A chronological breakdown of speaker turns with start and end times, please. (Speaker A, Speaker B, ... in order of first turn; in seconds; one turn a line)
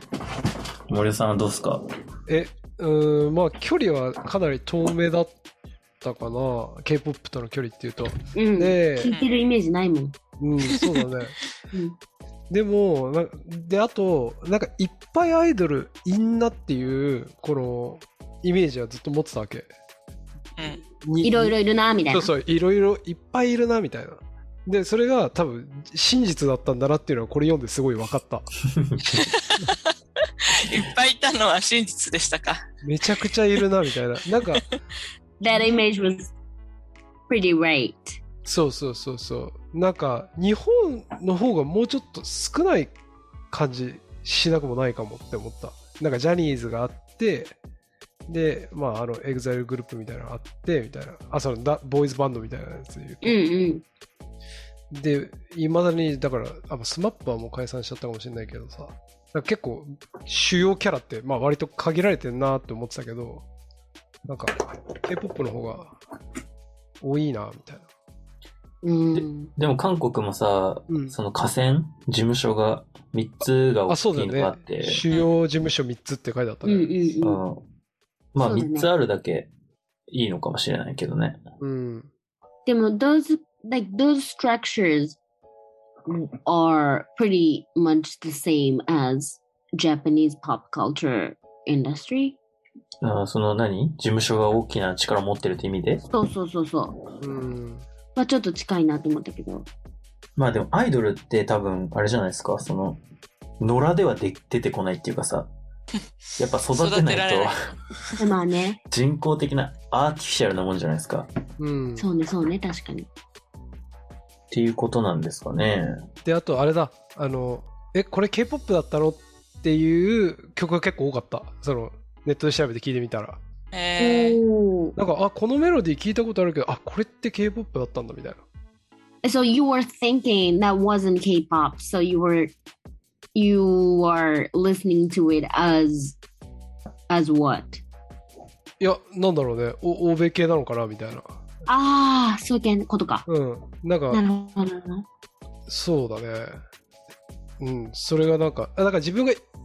Speaker A: 0.9-1.8
Speaker B: 2.3-5.3
Speaker B: 6.0-9.1
Speaker C: 8.3-10.1
Speaker D: 9.0-9.3
Speaker B: 10.4-11.4
Speaker B: 12.5-19.7
Speaker B: 21.0-21.5
Speaker C: 21.2-22.3
Speaker B: 22.1-28.5
Speaker A: 28.7-29.2
Speaker B: 29.0-29.6
Speaker D: 29.3-29.9
Speaker D: 30.4-32.6
Speaker B: 32.8-34.6
Speaker C: 35.4-36.3
Speaker C: 37.3-38.2
Speaker B: 38.4-42.9
Speaker B: 43.5-47.5
Speaker B: 48.3-53.4
Speaker C: 53.2-53.8
Speaker B: 54.9-63.4
Speaker B: 64.2-66.0
Speaker B: 67.0-67.8
Speaker C: 68.8-69.5
Speaker A: 69.1-75.0
Speaker B: 70.9-71.1
Speaker B: 73.9-76.9
Speaker C: 76.6-77.4
Speaker A: 77.2-77.6
Speaker A: 78.3-79.5
Speaker C: 78.4-78.9
Speaker A: 80.1-81.4
Speaker B: 81.6-82.1
Speaker C: 82.7-85.2
Speaker C: 86.0-92.4
Speaker A: 93.0-96.0
Speaker C: 96.1-97.0
Speaker B: 97.2-97.8
Speaker C: 98.1-99.7
Speaker A: 100.4-103.0
Speaker A: 103.6-105.5
Speaker A: 106.4-107.6
Speaker D: 106.7-108.2
Speaker C: 108.2-108.8
Speaker A: 108.9-111.3
Speaker B: 111.6-112.1
Speaker C: 112.0-113.1
Speaker A: 114.5-116.0
Speaker B: 116.2-123.4
Speaker D: 123.7-124.4
Speaker C: 124.0-125.0
Speaker B: 125.0-128.4
Speaker C: 129.2-132.5
Speaker C: 133.3-136.2
Speaker C: 137.1-137.8
Speaker B: 138.8-141.4
Speaker C: 141.7-143.2
Speaker B: 143.3-144.2
Speaker C: 144.1-145.0
Speaker B: 145.7-146.6
Speaker B: 147.6-149.4